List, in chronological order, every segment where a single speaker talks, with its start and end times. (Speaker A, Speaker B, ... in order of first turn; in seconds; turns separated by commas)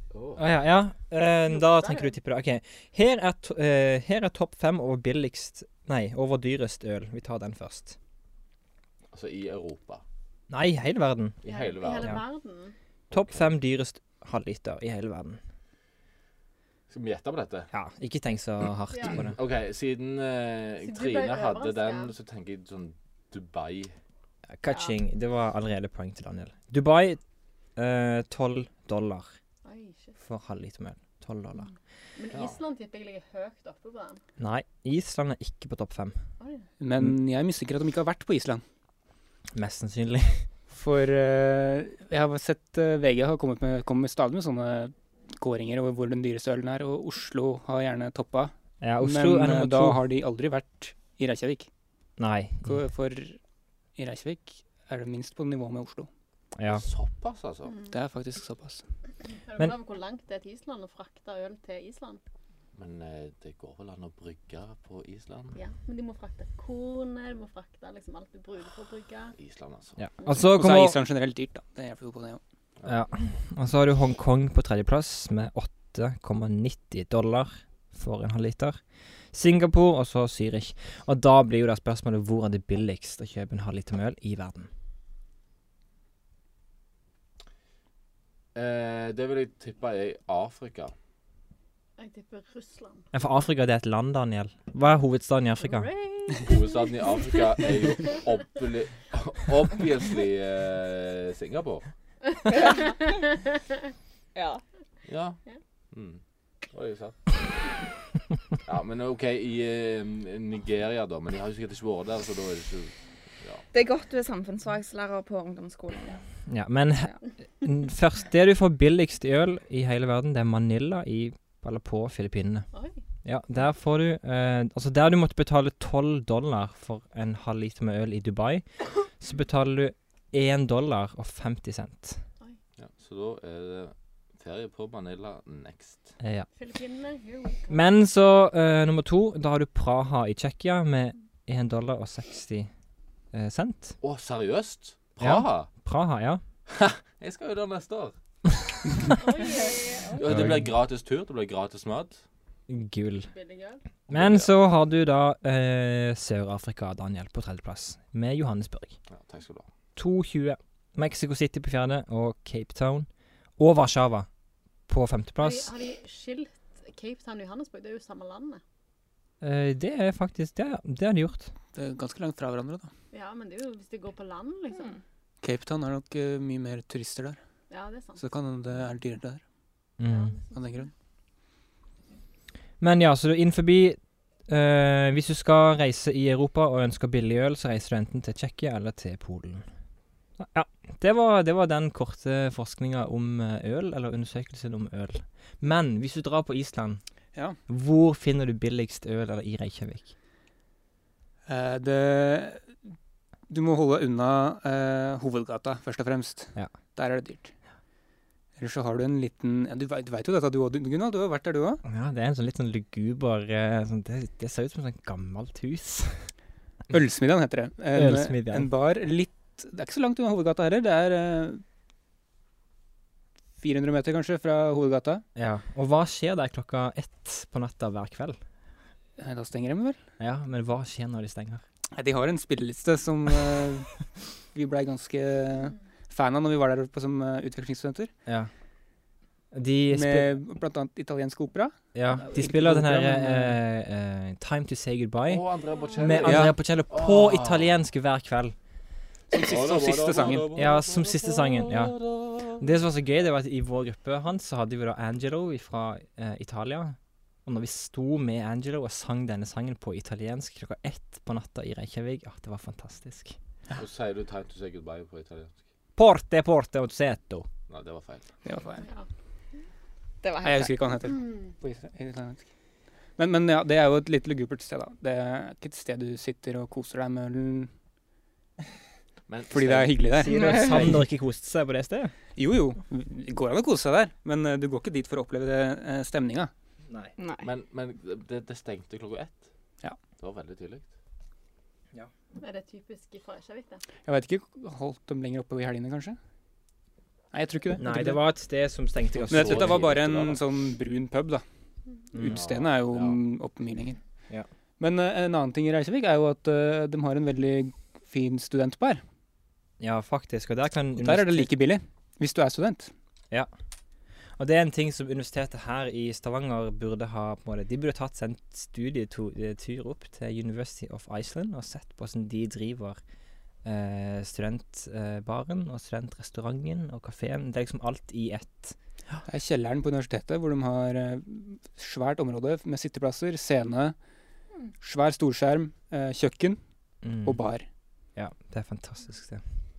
Speaker A: 0.1-0.4, Speaker B: 0.4-8.0, Speaker C: 1.5-2.1, Speaker A: 9.1-10.0, Speaker B: 10.5-11.4, Speaker A: 11.4-12.2, Speaker C: 11.4-12.7, Speaker A: 13.1-13.5, Speaker B: 13.1-15.4, Speaker A: 16.9-17.7, Speaker B: 17.7-19.4, Speaker C: 18.9-19.2, Speaker A: 19.1-23.9, Speaker C: 20.8-22.1, Speaker B: 24.6-27.2, Speaker B: 27.8-29.3, Speaker C: 29.6-30.2, Speaker B: 30.2-31.7, Speaker C: 32.2-34.2, Speaker A: 32.3-32.6, Speaker B: 34.4-36.2, Speaker C: 36.4-36.7, Speaker D: 36.8-38.6, Speaker B: 39.5-40.5, Speaker D: 40.7-51.7, Speaker B: 48.8-50.0, Speaker B: 52.2-52.8, Speaker D: 52.6-53.4, Speaker D: 54.0-56.1, Speaker B: 56.6-56.9, Speaker A: 56.7-57.8, Speaker C: 57.7-57.9, Speaker D: 57.9-58.9, Speaker C: 59.3-62.2, Speaker A: 62.8-65.6, Speaker C: 65.5-69.3, Speaker A: 69.4-70.0, Speaker B: 70.0-71.0, Speaker D: 70.5-72.4, Speaker B: 72.8-78.8, Speaker B: 79.3-84.7, Speaker A: 88.5-90.9, Speaker C: 92.0-93.1, Speaker B: 93.1-95.9, Speaker C: 95.6-98.2, Speaker A: 96.4-101.9, Speaker C: 102.4-103.4, Speaker E: 102.5-103.1, Speaker E: 104.3-104.6, Speaker A: 105.1-105.4, Speaker A: 105.9-106.2, Speaker A: 106.7-107.4, Speaker A: 108.6-113.6, Speaker E: 113.7-116.2, Speaker B: 116.5-122.7, Speaker C: 122.7-123.0, Speaker B: 123.2-132.2, Speaker A: 132.8-136.1, Speaker B: 136.2-136.5, Speaker C: 136.6-137.9, Speaker B: 137.7-142.7, Speaker B: 143.3-144.0, Speaker A: 144.0-145.7, Speaker B: 145.2-146.4, Speaker A: 146.7-148.1, Speaker C: 149.2-150.2, Speaker A: 150.2-152.2, Speaker B: 150.3-150.7, Speaker B: 152.7-153.3, Speaker C: 153.3-153.8, Speaker B: 154.1-159.0, Speaker A: 154.1-154.5, Speaker A: 159.1-159.7, Speaker B: 160.0-164.3, Speaker B: 164.9-165.7, Speaker C: 165.4-168.6, Speaker B: 169.4-171.5, Speaker D: 171.8-172.9, Speaker C: 173.1-175.0, Speaker D: 175.4-177.4, Speaker C: 177.7-178.2, Speaker D: 178.2-179.4, Speaker B: 180.0-180.4, Speaker C: 180.1-180.8, Speaker D: 180.5-180.9, Speaker B: 182.8-189.7, Speaker B: 190.4-197.0, Speaker B: 197.7-200.1, Speaker D: 201.5-202.7, Speaker D: 203.5-207.5, Speaker D: 208.6-211.8, Speaker B: 211.8-216.3, Speaker D: 216.9-221.6, Speaker B: 217.9-218.7, Speaker D: 223.6-225.2, Speaker B: 225.4-228.4, Speaker D: 229.2-230.0, Speaker B: 230.2-231.6, Speaker D: 231.9-238.1, Speaker B: 239.5-240.3, Speaker D: 239.9-243.6, Speaker B: 241.9-245.4, Speaker A: 245.3-247.8, Speaker B: 246.0-248.6, Speaker D: 246.2-246.6, Speaker D: 249.3-250.5, Speaker A: 249.3-252.6, Speaker B: 250.6-252.0, Speaker B: 252.6-263.4, Speaker A: 263.8-265.6, Speaker B: 266.0-267.5, Speaker A: 267.7-268.2, Speaker D: 268.4-268.9, Speaker E: 270.2-270.8, Speaker D: 270.4-272.4, Speaker C: 271.1-271.5, Speaker D: 273.2-277.7, Speaker A: 279.3-280.0, Speaker D: 279.5-281.0, Speaker B: 280.2-282.1, Speaker E: 280.3-280.9, Speaker D: 282.4-286.5, Speaker E: 287.2-287.5, Speaker A: 287.4-289.5, Speaker A: 290.2-290.9, Speaker C: 292.4-293.8, Speaker D: 294.1-296.2, Speaker D: 297.3-298.2, Speaker B: 297.8-300.3, Speaker A: 299.2-300.3, Speaker D: 299.3-301.4, Speaker B: 302.1-302.4, Speaker D: 302.2-304.0, Speaker A: 302.2-303.2, Speaker D: 304.8-309.0, Speaker B: 309.8-311.5, Speaker D: 311.0-312.9, Speaker B: 314.4-323.0, Speaker B: 323.6-329.2, Speaker D: 329.3-333.9, Speaker D: 334.8-336.6, Speaker B: 337.0-337.4, Speaker D: 337.2-337.7, Speaker B: 338.2-339.4